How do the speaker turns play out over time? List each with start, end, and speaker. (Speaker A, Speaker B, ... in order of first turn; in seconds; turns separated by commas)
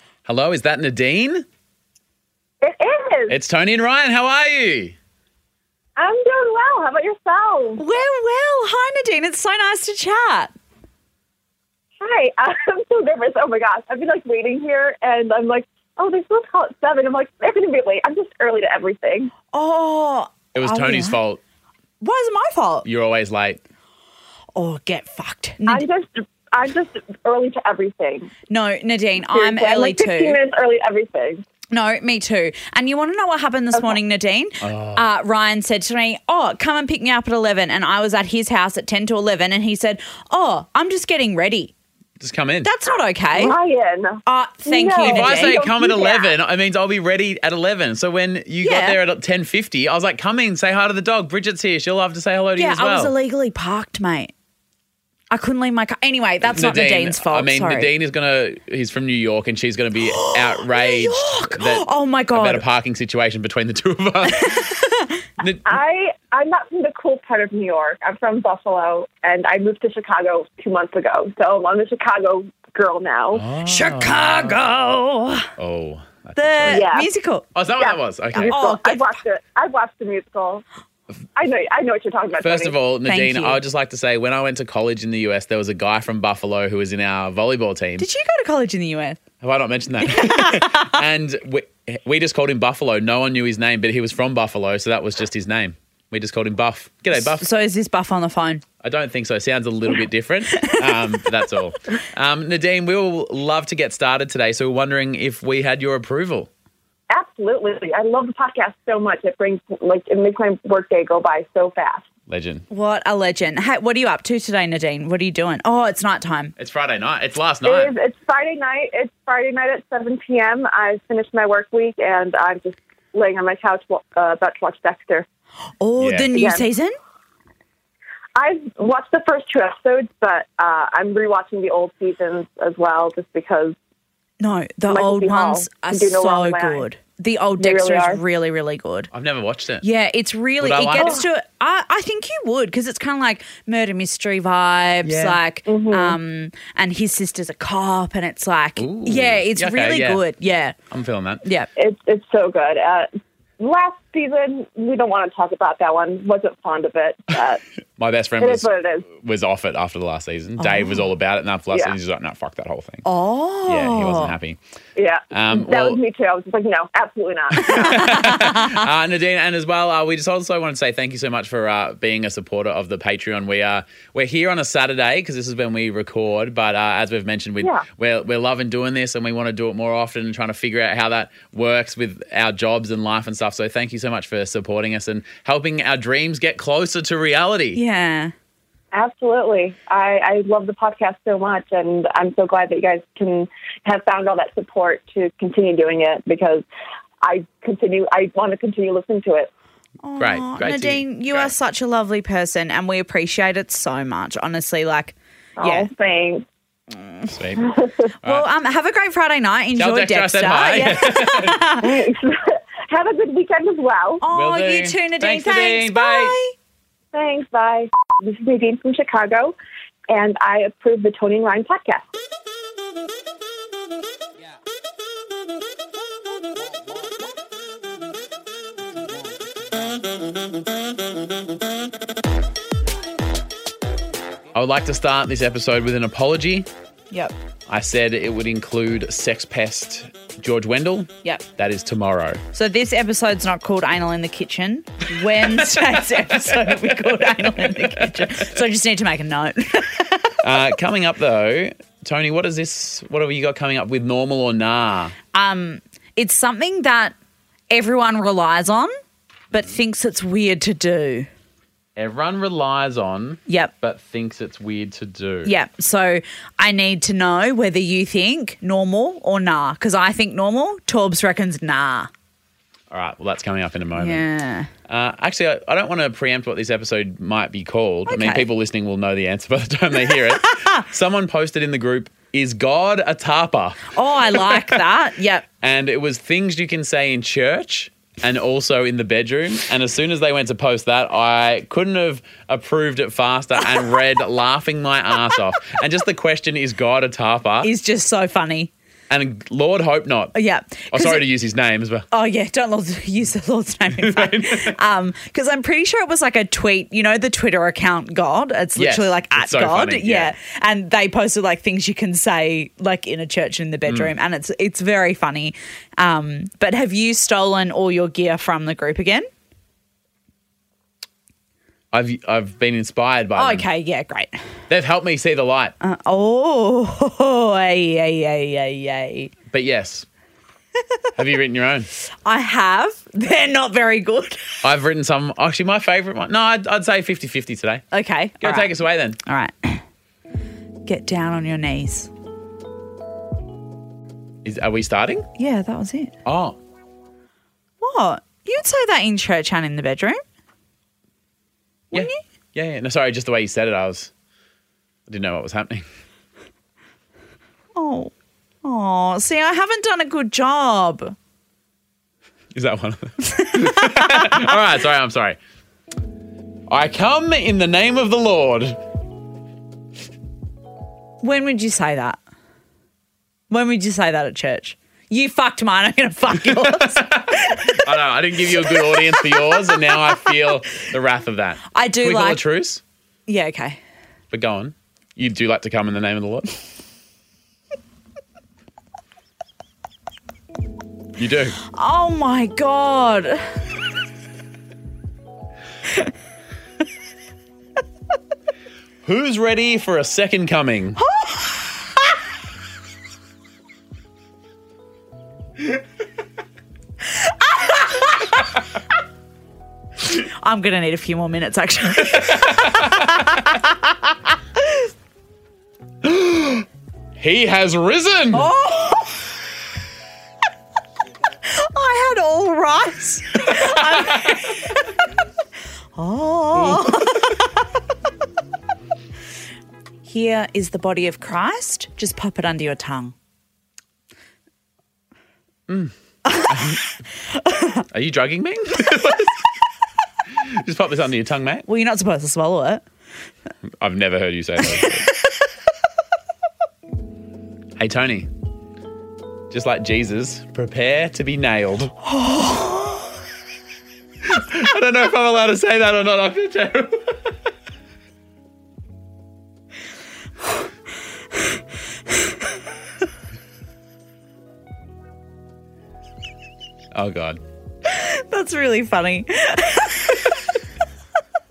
Speaker A: 0.3-1.4, Speaker B: 2.6-3.4, Speaker A: 3.3-5.0, Speaker B: 6.0-7.9, Speaker C: 7.8-10.5, Speaker B: 12.0-19.3, Speaker C: 19.5-21.2, Speaker A: 20.5-21.4, Speaker C: 22.0-22.9, Speaker A: 22.9-23.6, Speaker C: 24.6-25.9, Speaker B: 25.7-28.3, Speaker C: 28.5-30.4, Speaker B: 29.3-31.4, Speaker C: 31.7-41.7, Speaker A: 34.6-35.0, Speaker A: 42.2-42.7, Speaker C: 42.6-43.6, Speaker B: 43.3-46.3, Speaker C: 44.3-45.6, Speaker A: 45.0-53.1, Speaker C: 48.6-49.0, Speaker C: 52.6-54.3, Speaker C: 55.3-57.9, Speaker A: 56.5-64.7, Speaker C: 60.0-62.6, Speaker C: 64.3-65.2, Speaker A: 65.4-65.8, Speaker B: 65.7-73.5, Speaker A: 73.3-74.6, Speaker C: 73.6-75.5, Speaker A: 75.6-76.9, Speaker C: 76.4-77.5, Speaker B: 76.7-77.1, Speaker A: 77.5-78.5, Speaker B: 77.8-80.6, Speaker C: 78.4-79.1, Speaker B: 81.4-82.8, Speaker A: 82.4-88.1, Speaker C: 83.1-83.6, Speaker C: 88.0-89.2, Speaker A: 89.4-97.5, Speaker C: 90.0-91.0, Speaker C: 97.1-98.6, Speaker A: 98.8-106.5, Speaker C: 100.5-101.0, Speaker B: 107.1-112.1, Speaker A: 112.3-112.7, Speaker C: 112.7-116.5, Speaker A: 116.6-117.9, Speaker B: 117.6-125.3, Speaker C: 125.8-127.0, Speaker A: 126.0-126.3, Speaker B: 126.3-126.7, Speaker B: 128.4-133.8, Speaker C: 134.4-139.1, Speaker B: 134.9-136.8, Speaker B: 137.6-138.2, Speaker A: 139.1-139.9, Speaker C: 139.8-150.8, Speaker A: 140.6-141.2, Speaker A: 145.0-145.4, Speaker B: 145.7-146.2, Speaker A: 148.8-150.2, Speaker A: 150.9-151.4, Speaker B: 151.8-153.1, Speaker B: 153.6-157.6, Speaker A: 158.0-163.1, Speaker B: 158.4-159.1, Speaker C: 160.6-161.0, Speaker C: 163.0-164.3, Speaker A: 163.7-164.6, Speaker B: 165.0-168.4, Speaker A: 165.3-166.0, Speaker A: 167.6-187.8, Speaker C: 167.6-168.9, Speaker C: 187.7-188.3, Speaker B: 188.9-196.7, Speaker B: 197.2-199.5, Speaker C: 200.0-205.9, Speaker A: 200.2-201.5, Speaker B: 205.6-206.4, Speaker C: 206.9-207.4, Speaker A: 207.3-207.7, Speaker B: 207.6-208.1, Speaker A: 208.2-208.5, Speaker C: 208.2-212.0, Speaker A: 209.8-211.6, Speaker B: 211.8-214.2, Speaker C: 214.2-216.6, Speaker A: 214.3-216.4, Speaker B: 217.1-219.6, Speaker B: 220.1-222.0, Speaker A: 234.5-236.7, Speaker A: 237.7-242.4, Speaker C: 242.5-250.4, Speaker A: 245.8-248.6, Speaker A: 250.4-255.2, Speaker C: 255.3-257.1, Speaker C: 257.7-258.9, Speaker C: 259.5-261.3, Speaker A: 262.0-265.5, Speaker C: 263.5-263.7, Speaker C: 265.4-272.1, Speaker A: 272.9-274.2, Speaker C: 274.0-274.7, Speaker A: 274.9-284.8, Speaker C: 278.1-278.5, Speaker C: 280.1-280.8, Speaker C: 283.9-285.4, Speaker A: 285.6-297.7, Speaker C: 297.6-298.7, Speaker A: 299.1-300.3, Speaker C: 300.3-301.2, Speaker A: 300.9-302.1, Speaker C: 302.1-319.3, Speaker A: 304.0-304.8, Speaker A: 308.8-310.4, Speaker A: 313.9-314.1, Speaker A: 321.9-323.7, Speaker C: 323.4-324.4, Speaker A: 324.7-325.7, Speaker C: 325.8-329.3, Speaker A: 329.5-330.1, Speaker A: 331.2-331.9, Speaker C: 332.2-334.6, Speaker A: 334.6-337.8, Speaker C: 337.9-339.8, Speaker A: 338.4-339.2, Speaker C: 340.9-342.1, Speaker A: 344.4-345.3, Speaker C: 345.4-346.1, Speaker A: 346.2-346.6, Speaker C: 347.8-350.2, Speaker C: 351.9-352.2, Speaker A: 351.9-354.1, Speaker A: 355.1-355.9, Speaker C: 357.8-358.1, Speaker C: 358.6-361.1, Speaker A: 362.5-365.4, Speaker C: 363.2-364.5, Speaker A: 366.7-368.8, Speaker C: 371.2-372.2, Speaker C: 373.5-377.9, Speaker A: 376.4-382.8, Speaker C: 378.6-380.1, Speaker C: 381.7-382.4, Speaker C: 383.3-383.8, Speaker A: 384.3-386.6, Speaker A: 391.2-391.6, Speaker C: 391.7-393.5, Speaker A: 399.0-401.0, Speaker C: 401.0-401.7, Speaker C: 407.6-408.1, Speaker C: 410.1-413.9, Speaker A: 412.0-413.4, Speaker C: 414.6-414.8, Speaker A: 416.0-416.7, Speaker A: 417.2-418.5, Speaker C: 418.3-419.3, Speaker C: 421.4-424.9, Speaker A: 423.5-424.4, Speaker C: 426.0-427.6, Speaker A: 426.6-427.1, Speaker C: 430.0-433.1, Speaker A: 435.7-436.8, Speaker C: 436.3-437.8, Speaker A: 437.9-439.4, Speaker A: 440.3-441.7, Speaker C: 441.7-442.8, Speaker A: 443.8-445.1, Speaker A: 447.8-448.3, Speaker A: 449.5-451.9, Speaker C: 452.1-453.1, Speaker A: 454.2-457.3, Speaker A: 466.9-467.4, Speaker C: 467.9-470.2